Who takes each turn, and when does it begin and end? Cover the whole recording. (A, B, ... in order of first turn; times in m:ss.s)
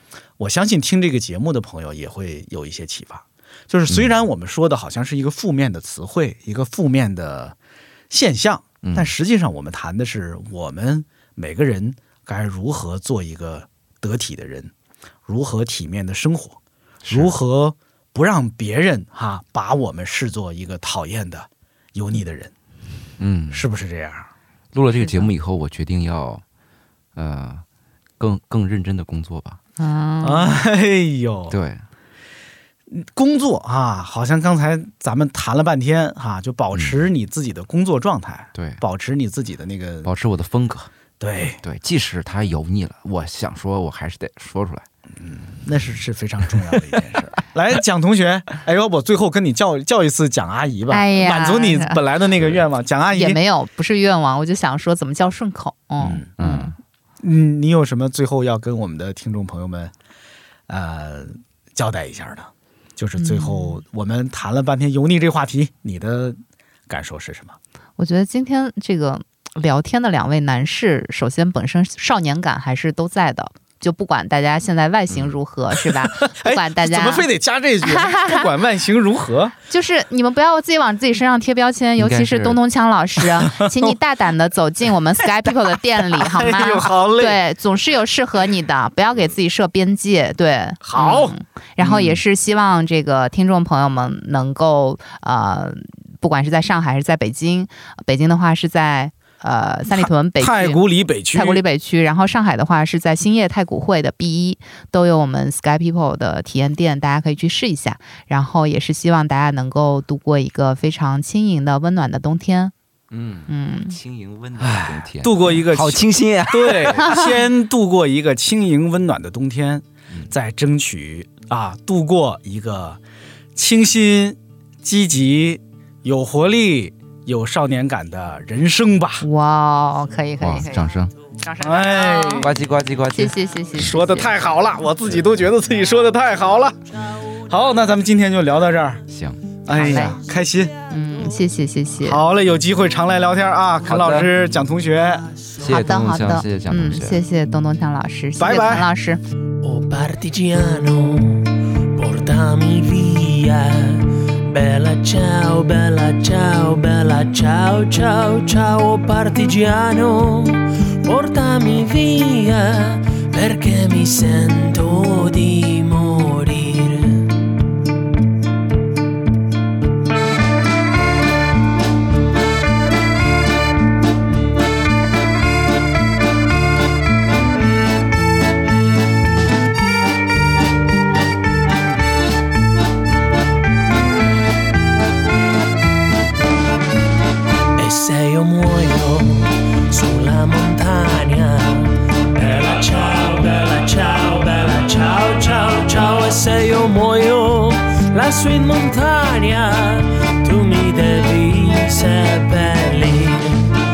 0:00.4-0:07.6 A
0:08.1-0:14.7 A
0:08.8-0:09.1 B
0:15.2-0:22.5 A
0:17.0-0:17.3 B
0:23.2-0:23.7 B
0:23.5-0:24.3 A
0:24.7-0:26.4 B
0:25.0-0:25.3 C
0:27.1-0:27.6 B
0:28.2-0:29.6 B
0:29.8-0:30.5 C
0:30.2-0:31.6 A
0:31.5-0:31.8 B
0:32.9-0:40.1 A
0:36.7-0:37.0 B
0:38.5-0:38.8 B
0:40.0-0:40.9 B
0:41.2-0:41.6 A
0:41.6-0:44.8 B
0:45.2-0:53.4 A
0:50.9-0:52.0 C
0:53.1-0:56.7 C
0:56.0-0:56.3 A
0:56.4-0:56.7 B
0:57.2-0:59.9 A
1:00.7-1:07.6 A
1:03.2-1:03.8 C
1:08.0-1:17.3 C
1:16.2-1:19.5 A
1:17.8-1:18.5 C
1:19.7-1:52.7 C
1:22.0-1:22.6 B
1:23.4-1:23.9 A
1:26.1-1:27.4 A
1:30.8-1:32.2 A
1:39.9-1:41.6 A
1:53.1-1:57.1 B
1:53.5-1:54.0 C
1:54.6-2:03.0 A
2:03.5-2:09.2 A
2:09.2-2:12.5 C
2:10.4-2:11.1 B
2:11.6-2:12.5 A
2:12.4-2:14.0 B
2:13.1-2:14.3 C
2:13.7-2:16.8 A
2:17.5-2:19.0 A
2:19.1-2:19.4 B
2:19.6-2:20.7 A
2:19.7-2:20.2 C
2:20.9-2:22.2 C
2:22.0-2:25.3 A
2:23.8-2:24.3 B
2:25.5-2:27.2 B
2:25.6-2:29.2 C
2:28.4-2:28.9 A
2:29.6-2:47.3 D
3:07.8-3:23.7 D